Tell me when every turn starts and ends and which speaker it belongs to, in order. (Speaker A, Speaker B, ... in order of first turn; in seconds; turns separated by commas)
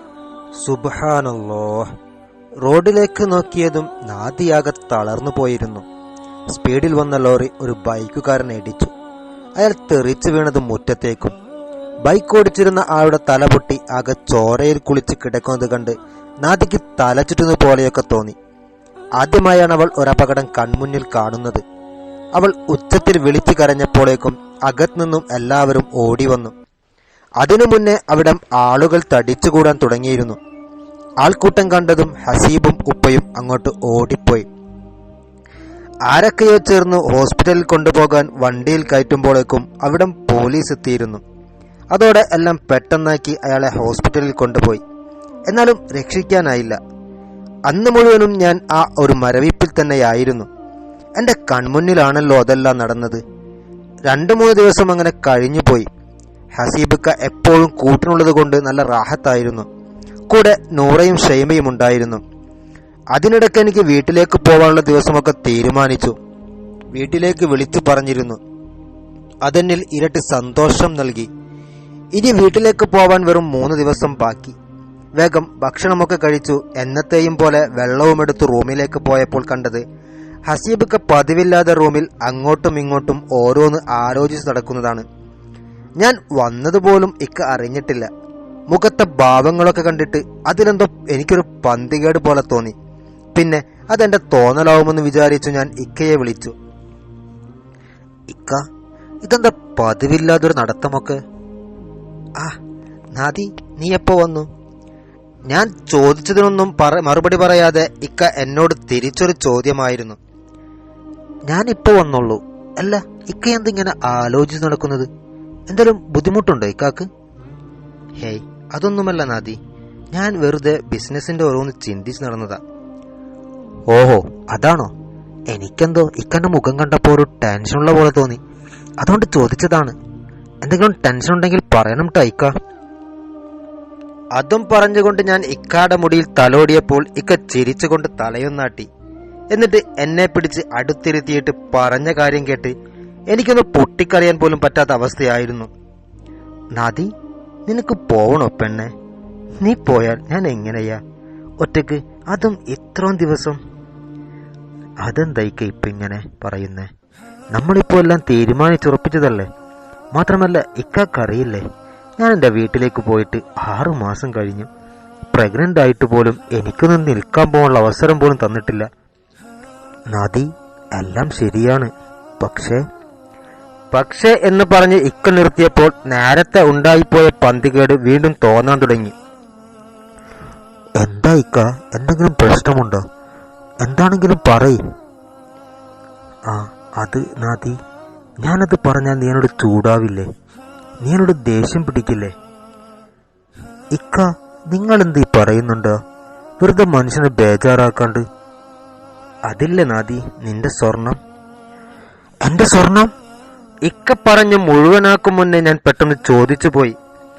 Speaker A: 0.6-1.8, Speaker A: 2.6-5.8, Speaker A: 6.5-8.9, Speaker A: 9.6-11.3, Speaker A: 12.0-18.3, Speaker A: 19.2-21.6, Speaker A: 22.4-26.5, Speaker A: 27.4-30.4, Speaker A: 31.2-34.5, Speaker A: 36.1-41.2, Speaker A: 41.9-44.8, Speaker A: 45.5-46.8, Speaker A: 47.7-50.5, Speaker A: 51.2-53.2, Speaker A: 54.1-55.9, Speaker A: 56.6-59.6, Speaker A: 60.3-62.2, Speaker A: 63.1-66.1, Speaker A: 66.9-68.4, Speaker A: 69.4-71.3, Speaker A: 72.2-74.6, Speaker A: 75.2-79.8, Speaker A: 80.5-85.0, Speaker A: 86.0-88.1, Speaker A: 88.7-92.7, Speaker A: 93.3-96.5, Speaker A: 98.3-98.6, Speaker A: 99.2-101.2, Speaker A: 103.1-104.5, Speaker A: 105.5-110.2, Speaker A: 111.5-115.1, Speaker A: 115.7-117.1, Speaker A: 118.2-119.6, Speaker A: 120.1-122.6, Speaker A: 123.9-124.9, Speaker A: 125.5-128.4, Speaker A: 129.0-129.9, Speaker A: 130.6-132.5, Speaker A: 134.3-138.9, Speaker A: 139.5-142.7, Speaker A: 143.3-145.7, Speaker A: 146.8-147.1, Speaker A: 147.7-148.9, Speaker A: 149.6-151.0, Speaker A: 151.6-153.6, Speaker A: 155.0-156.9, Speaker A: 157.5-159.5, Speaker A: 160.1-161.6, Speaker A: 162.2-164.7, Speaker A: 165.3-168.9, Speaker A: 170.1-172.8, Speaker A: 173.9-179.1, Speaker A: 181.0-183.0, Speaker A: 183.8-184.8, Speaker A: 186.5-187.8, Speaker A: 188.4-190.3, Speaker A: 191.0-192.3, Speaker A: 193.9-195.9, Speaker A: 196.6-198.2, Speaker A: 199.5-201.2, Speaker A: 202.4-203.1, Speaker A: 203.8-206.9